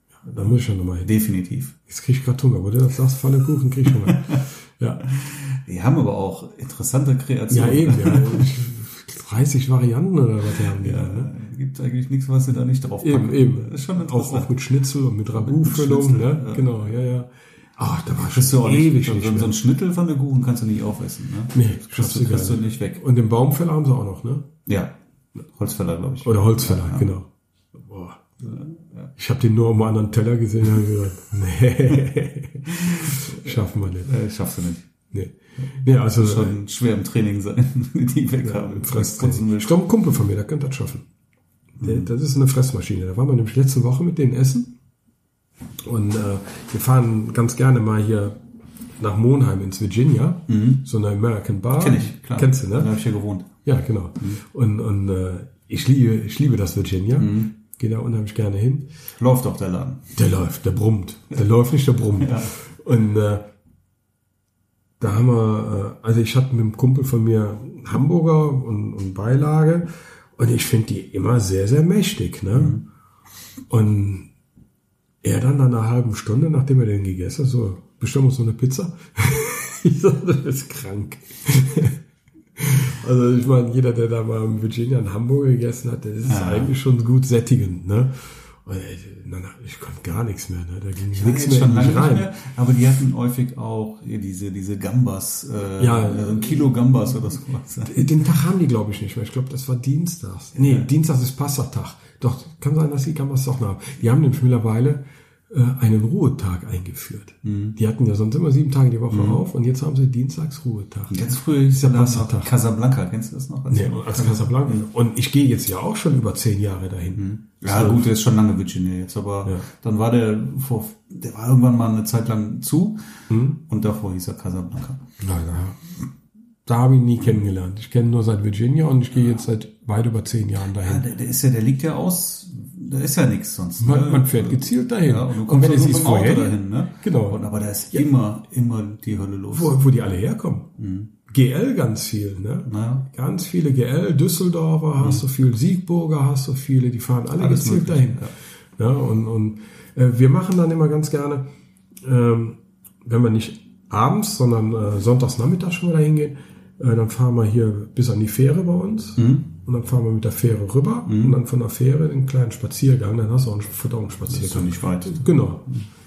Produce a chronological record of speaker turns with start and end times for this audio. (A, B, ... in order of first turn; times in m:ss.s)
0:00.2-0:01.1 A
0:00.4-0:01.8 B
0:01.9-0:05.0 A
0:03.8-0:04.5 B
0:05.0-0:08.5 B
0:07.5-0:11.3 A
0:10.5-0:14.5 B
0:13.0-0:19.6 A
0:15.4-0:17.0 B
0:18.2-0:23.0 B
0:21.5-0:24.5 A
0:24.7-0:24.9 B
0:25.5-0:27.1 B
0:26.2-0:28.2 A
0:28.4-0:29.1 B
0:29.2-0:34.1 A
0:32.7-0:34.9 B
0:35.1-0:36.6 A
0:35.6-0:39.8 B
0:38.4-0:41.1 A
0:41.8-0:44.8 A
0:41.8-0:42.1 B
0:45.8-0:48.4 A
0:49.0-0:52.9 A
0:50.5-0:50.8 B
0:51.7-0:53.5 B
0:53.6-0:58.9 A
0:57.2-0:57.5 B
0:59.2-1:00.1 B
1:00.2-1:03.5 A
1:02.2-1:02.6 B
1:05.0-1:12.8 A
1:12.5-1:12.8 B
1:13.7-1:14.3 A
1:15.2-1:22.0 A
1:22.6-1:32.3 A
1:26.2-1:26.8 B
1:31.1-1:38.2 B
1:35.8-1:36.7 A
1:37.8-1:51.2 A
1:40.6-1:40.9 B
1:47.4-1:47.8 B
1:49.1-1:49.4 B
1:51.1-1:54.9 B
1:51.7-1:52.5 A
1:53.7-1:58.1 A
1:57.2-2:05.0 B
2:03.3-2:03.6 A
2:05.2-2:05.9 A
2:06.6-2:11.1 A
2:10.8-2:19.8 B
2:13.8-2:18.1 A
2:19.5-2:20.7 A
2:20.8-2:21.1 B
2:21.3-2:31.5 A
2:22.7-2:23.1 B
2:25.0-2:25.2 B
2:27.3-2:28.3 B
2:32.0-2:45.7 A
2:39.2-2:39.5 B
2:41.1-2:41.4 B
2:44.3-2:45.9 B